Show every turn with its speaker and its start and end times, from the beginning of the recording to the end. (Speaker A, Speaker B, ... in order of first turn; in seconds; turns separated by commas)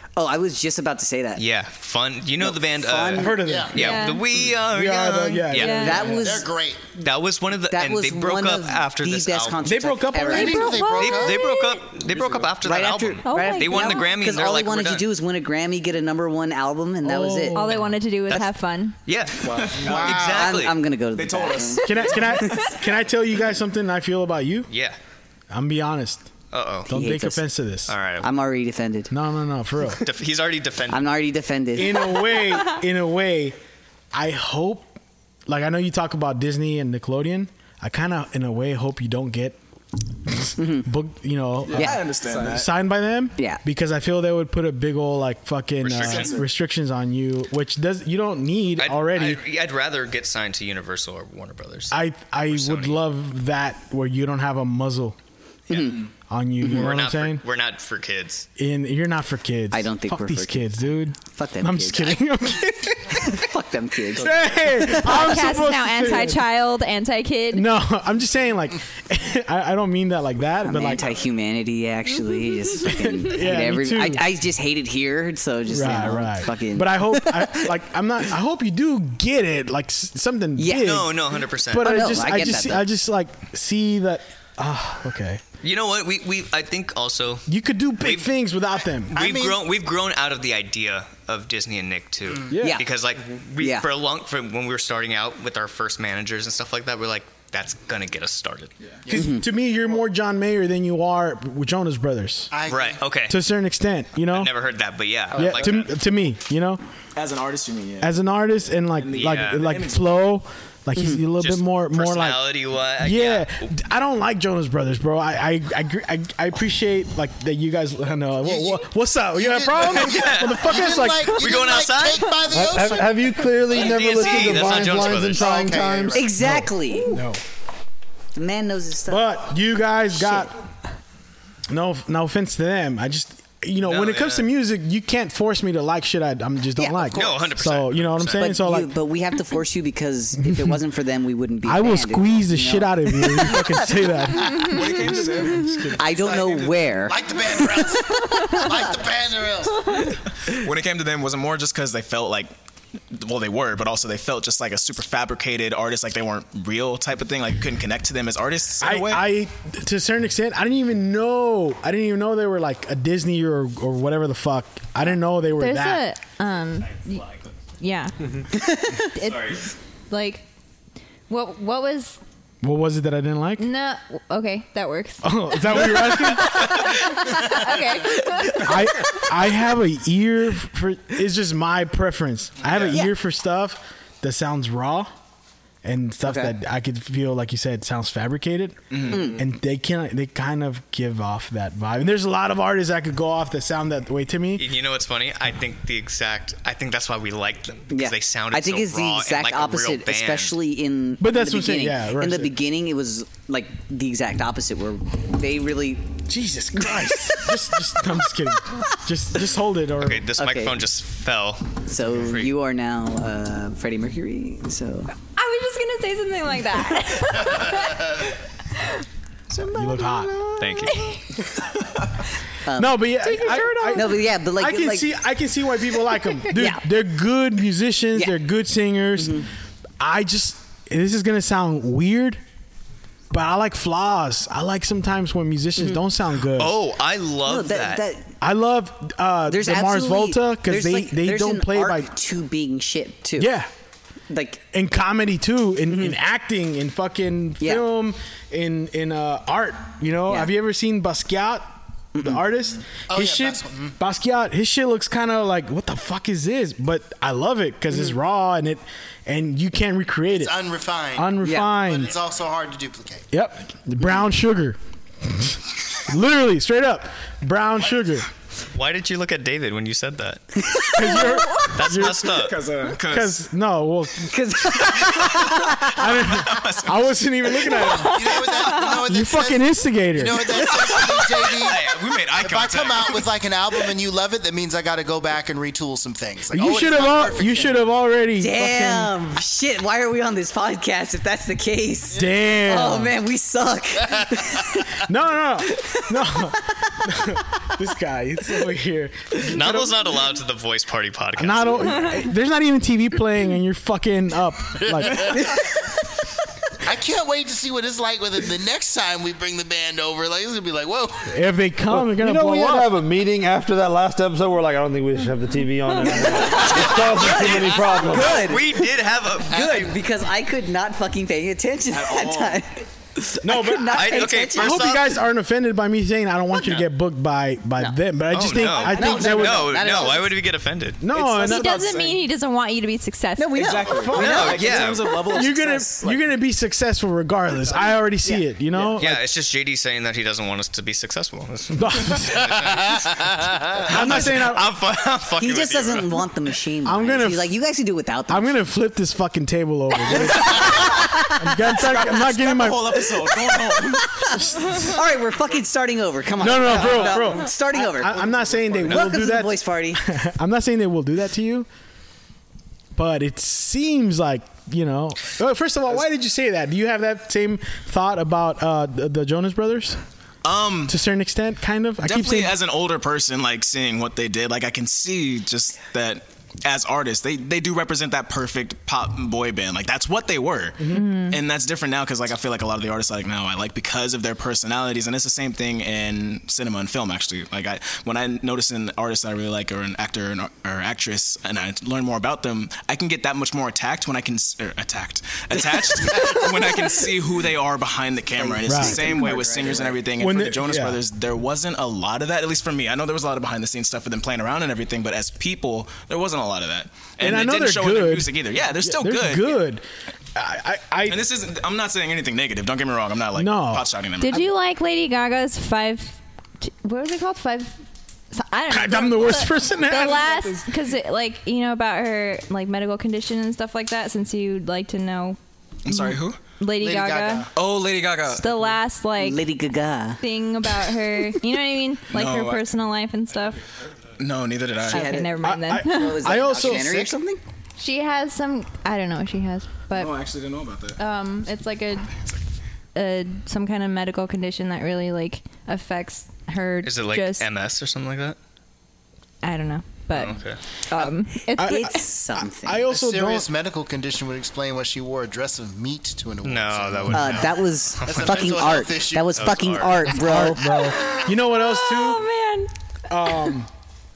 Speaker A: 0.1-1.4, Speaker B: 1.4-6.0, Speaker A: 2.4-3.4, Speaker C: 3.1-3.8, Speaker D: 3.4-3.7, Speaker E: 3.7-4.2, Speaker C: 4.3-6.4, Speaker E: 5.5-6.1, Speaker A: 5.7-6.5, Speaker D: 6.1-6.8, Speaker B: 7.0-9.6, Speaker A: 7.7-10.8, Speaker C: 9.6-10.8, Speaker D: 10.2-11.4, Speaker E: 10.3-11.9, Speaker B: 10.9-15.1, Speaker F: 12.1-12.5, Speaker A: 12.6-17.7, Speaker E: 13.2-14.1, Speaker C: 17.0-17.9, Speaker E: 17.5-19.0, Speaker B: 19.0-20.8, Speaker F: 19.4-20.3, Speaker D: 19.8-20.6, Speaker A: 20.2-22.7, Speaker F: 21.1-22.4, Speaker C: 21.8-24.7, Speaker B: 24.7-25.0, Speaker C: 25.5-26.3, Speaker B: 26.5-26.9, Speaker A: 26.9-27.4, Speaker C: 26.9-27.9, Speaker B: 27.9-28.3, Speaker A: 28.2-29.1, Speaker C: 29.1-30.0, Speaker B: 29.9-31.1, Speaker A: 30.9-32.2, Speaker C: 31.8-33.6, Speaker C: 34.1-34.9, Speaker C: 35.5-39.6, Speaker C: 40.2-49.4, Speaker A: 40.6-40.9, Speaker F: 41.7-42.7, Speaker A: 41.7-42.0, Speaker B: 45.8-46.4, Speaker F: 45.9-46.5, Speaker B: 48.8-52.0, Speaker C: 51.9-55.1, Speaker B: 52.5-53.0, Speaker B: 55.7-55.9, Speaker C: 56.3-57.4, Speaker B: 56.7-58.5, Speaker C: 58.6-63.3, Speaker A: 59.7-62.2, Speaker A: 63.1-65.3, Speaker C: 64.2-66.4, Speaker E: 64.9-67.7, Speaker C: 67.5-71.0, Speaker A: 70.6-77.7, Speaker C: 72.8-74.2, Speaker C: 75.7-85.4, Speaker A: 80.6-81.0, Speaker B: 80.7-82.1, Speaker A: 81.8-82.9, Speaker B: 85.6-87.5, Speaker C: 87.5-89.1, Speaker B: 88.0-88.3, Speaker D: 89.1-89.6, Speaker B: 89.1-98.7, Speaker C: 92.5-92.8, Speaker A: 92.6-92.9, Speaker A: 93.6-93.8, Speaker C: 99.1-102.5, Speaker A: 99.1-99.4, Speaker D: 102.5-103.0, Speaker B: 102.7-103.4, Speaker C: 103.3-104.5, Speaker B: 104.3-105.9, Speaker C: 105.3-106.8, Speaker F: 105.4-105.8, Speaker F: 107.1-108.1, Speaker C: 108.0-112.5, Speaker F: 109.0-110.1, Speaker B: 109.2-109.7, Speaker B: 111.4-113.7, Speaker C: 113.0-121.4, Speaker D: 118.4-126.3, Speaker B: 119.9-122.4, Speaker G: 122.5-126.2, Speaker B: 123.7-125.7, Speaker C: 125.7-127.4, Speaker A: 126.1-127.1, Speaker A: 128.3-129.3, Speaker C: 129.1-130.5, Speaker A: 130.2-130.5, Speaker C: 131.7-138.9, Speaker B: 133.8-134.5, Speaker A: 136.8-137.3, Speaker B: 137.1-138.5, Speaker A: 138.4-144.1, Speaker C: 140.4-140.8, Speaker C: 141.6-146.0, Speaker F: 144.6-147.0, Speaker A: 146.0-147.6, Speaker D: 146.1-150.0, Speaker A: 148.4-148.8, Speaker F: 150.4-152.5, Speaker F: 153.1-159.2, Speaker C: 158.8-166.0, Speaker E: 165.6-167.3, Speaker B: 166.8-167.5, Speaker E: 167.8-168.4, Speaker A: 168.5-169.0, Speaker E: 169.1-170.4, Speaker B: 169.2-169.7, Speaker E: 171.3-172.2, Speaker C: 172.6-173.7, Speaker E: 173.6-178.9, Speaker C: 175.2-176.7, Speaker C: 178.6-185.1, Speaker F: 182.7-183.0, Speaker C: 185.8-194.7, Speaker A: 186.2-186.5, Speaker F: 188.9-189.3, Speaker A: 189.1-189.4, Speaker B: 194.6-200.5, Speaker A: 197.9-206.0, Speaker C: 201.2-202.5, Speaker C: 206.3-210.3, Speaker A: 206.8-207.1, Speaker B: 210.0-212.5, Speaker A: 210.4-210.8, Speaker A: 211.8-215.1, Speaker E: 215.3-219.0, Speaker A: 219.5-220.6, Speaker C: 219.7-220.3, Speaker B: 220.6-221.0, Speaker E: 220.8-221.3, Speaker A: 222.6-225.1, Speaker C: 222.8-229.4, Speaker E: 223.2-224.2, Speaker A: 226.5-226.8, Speaker A: 229.2-229.5, Speaker C: 230.0-232.4, Speaker C: 233.3-236.8, Speaker B: 236.6-238.0, Speaker A: 237.4-238.3, Speaker C: 238.4-242.1, Speaker A: 239.5-243.5, Speaker C: 243.4-243.7, Speaker A: 244.3-244.6, Speaker C: 244.7-260.5, Speaker A: 245.9-246.1, Speaker A: 252.1-252.4, Speaker D: 253.1-253.9, Speaker D: 260.3-263.2, Speaker C: 261.1-262.1, Speaker A: 261.4-261.7, Speaker C: 263.3-268.3, Speaker B: 268.7-270.4, Speaker C: 270.9-272.4, Speaker E: 271.0-271.7, Speaker B: 271.7-272.5, Speaker F: 272.2-273.4, Speaker C: 272.9-274.3, Speaker A: 274.3-276.0, Speaker F: 275.0-278.8, Speaker C: 275.9-278.4, Speaker D: 277.8-287.8, Speaker C: 279.0-280.6, Speaker F: 280.6-283.2, Speaker B: 281.6-281.9, Speaker B: 282.5-283.2, Speaker C: 286.5-289.1, Speaker A: 288.4-295.0, Speaker C: 292.1-293.1, Speaker C: 295.0-300.1, Speaker A: 295.6-296.5, Speaker B: 299.5-302.2, Speaker C: 301.4-305.4, Speaker D: 304.8-305.7, Speaker D: 306.8-311.3, Speaker C: 311.3-312.9, Speaker G: 311.9-318.4, Speaker A: 316.0-318.8, Speaker B: 316.6-319.9, Speaker D: 318.1-318.4, Speaker A: 319.5-322.9, Speaker D: 319.5-319.9, Speaker F: 321.9-322.6, Speaker A: 323.4-324.9, Speaker C: 323.4-329.9, Speaker B: 323.9-325.1, Speaker B: 328.3-331.0, Speaker A: 328.8-330.4, Speaker C: 331.0-331.9, Speaker F: 331.1-332.2, Speaker E: 331.4-333.6, Speaker A: 333.4-334.9, Speaker F: 333.5-336.2, Speaker B: 334.1-335.1, Speaker C: 335.3-339.2, Speaker F: 338.7-339.0, Speaker B: 339.0-346.2, Speaker C: 341.7-342.6, Speaker C: 343.9-344.7, Speaker A: 345.4-348.5, Speaker C: 346.8-347.5, Speaker C: 348.3-352.9, Speaker A: 350.0-360.0, Speaker F: 351.9-354.4, Speaker C: 354.5-354.9, Speaker C: 356.4-361.7, Speaker C: 362.9-370.0, Speaker F: 370.4-370.9, Speaker C: 370.9-372.6, Speaker F: 372.0-409.6, Speaker C: 380.8-381.0, Speaker E: 380.9-381.4, Speaker A: 398.3-400.0, Speaker C: 398.6-399.3, Speaker C: 400.2-401.0, Speaker C: 407.2-409.8, Speaker C: 410.3-411.2, Speaker F: 411.1-414.5, Speaker C: 413.4-413.9, Speaker E: 414.2-417.8, Speaker E: 418.3-427.5, Speaker C: 418.7-420.6, Speaker F: 425.8-426.4, Speaker D: 426.8-427.5, Speaker F: 427.5-428.8, Speaker E: 428.2-429.4, Speaker A: 429.2-430.2, Speaker E: 430.2-433.6, Speaker F: 432.1-432.6, Speaker F: 434.2-435.1, Speaker A: 434.9-437.4, Speaker E: 434.9-436.2, Speaker C: 435.4-436.9, Speaker D: 436.5-437.1, Speaker E: 437.8-440.2, Speaker F: 439.9-441.0, Speaker E: 441.0-442.1, Speaker E: 442.9-447.5, Speaker B: 446.8-448.4, Speaker E: 449.4-452.1, Speaker B: 450.1-450.6, Speaker A: 450.9-452.8, Speaker C: 451.5-453.5, Speaker D: 452.9-459.6, Speaker B: 456.4-458.7, Speaker A: 457.1-460.6, Speaker B: 459.4-460.1, Speaker C: 460.1-462.2, Speaker E: 460.7-463.5, Speaker C: 463.1-463.7